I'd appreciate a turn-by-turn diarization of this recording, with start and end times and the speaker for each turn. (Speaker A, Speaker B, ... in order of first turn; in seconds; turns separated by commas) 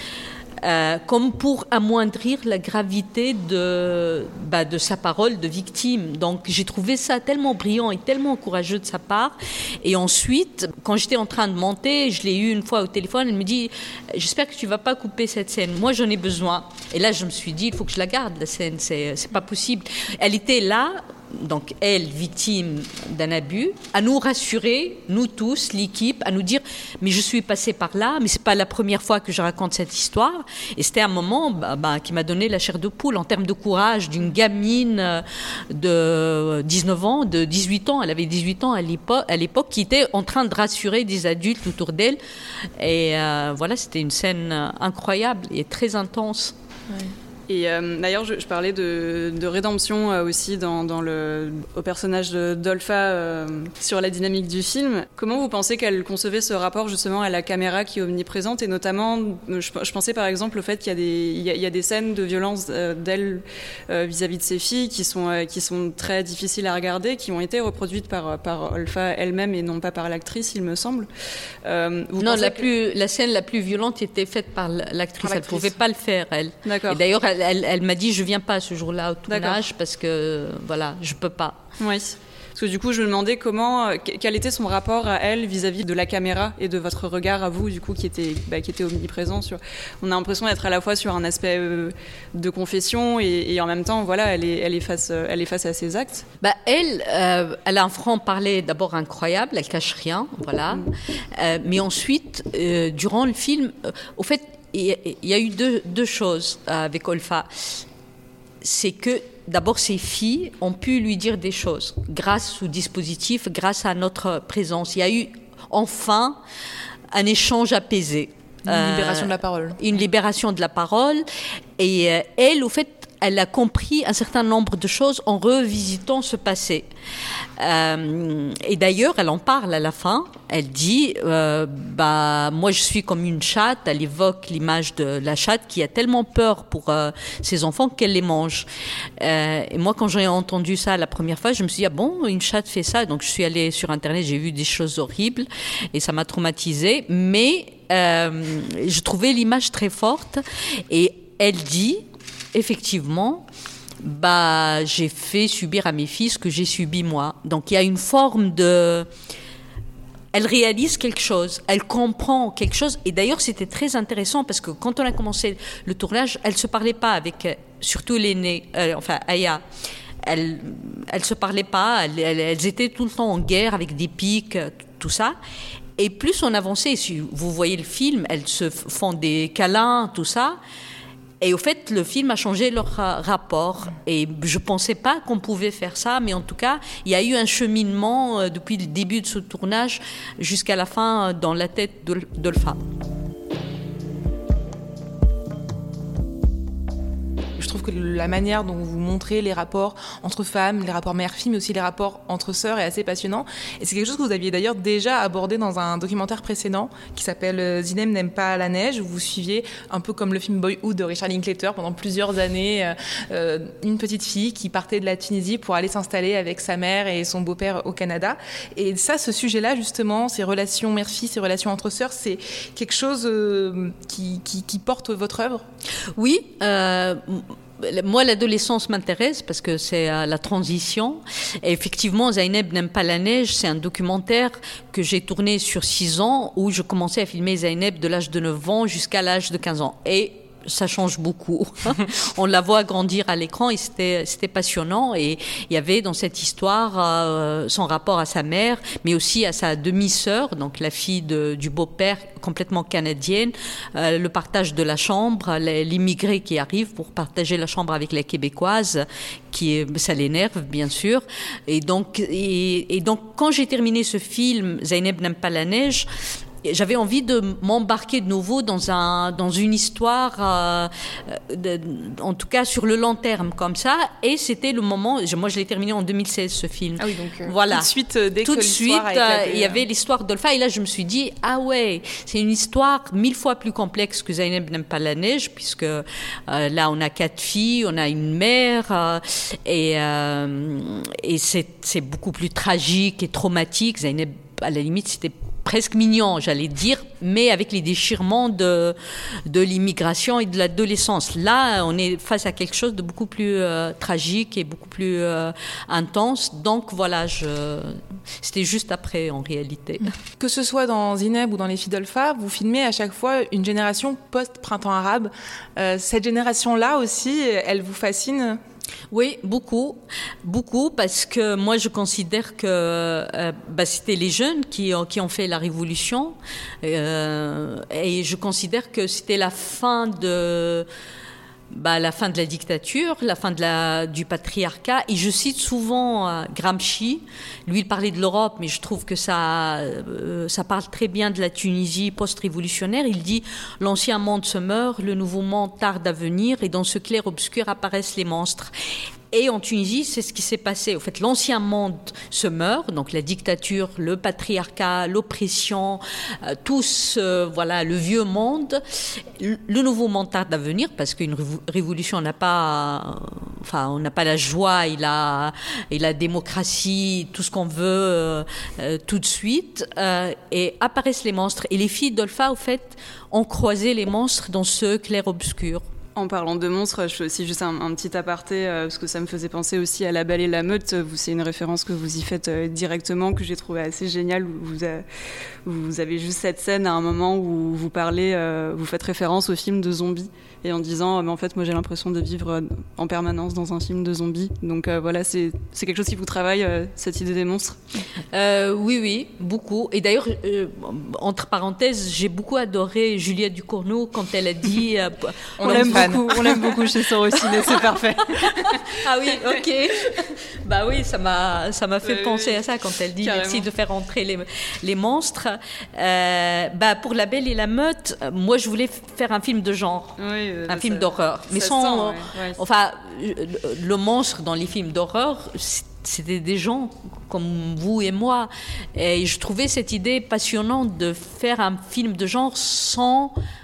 Speaker A: 0.6-42.2, Speaker A: 42.8-46.5, Speaker B: 47.5-71.1, Speaker B: 71.6-72.7, Speaker A: 72.2-81.6, Speaker C: 75.2-75.8, Speaker B: 76.6-77.0, Speaker B: 79.3-79.6, Speaker B: 81.8-96.2, Speaker A: 96.4-107.5, Speaker A: 108.6-116.4, Speaker A: 117.1-121.2, Speaker C: 118.7-119.8, Speaker A: 121.8-126.8, Speaker A: 127.6-138.7, Speaker A: 139.2-153.4, Speaker A: 154.0-159.1, Speaker A: 160.3-169.6, Speaker A: 170.2-175.3, Speaker A: 176.0-180.6, Speaker A: 181.4-192.8, Speaker C: 197.6-225.6, Speaker A: 226.2-266.1, Speaker A: 266.6-277.9, Speaker C: 277.0-279.8, Speaker A: 278.4-298.9, Speaker A: 299.5-310.1, Speaker C: 310.4-318.6, Speaker A: 319.1-330.9, Speaker A: 331.7-348.7, Speaker A: 349.3-358.8, Speaker A: 359.4-375.8, Speaker B: 376.1-385.0, Speaker B: 385.6-397.8, Speaker A: 398.3-407.8, Speaker C: 405.6-406.8, Speaker B: 405.6-408.9, Speaker A: 408.4-420.2, Speaker B: 412.0-412.6, Speaker B: 413.2-413.7, Speaker B: 420.2-422.6, Speaker A: 420.7-433.4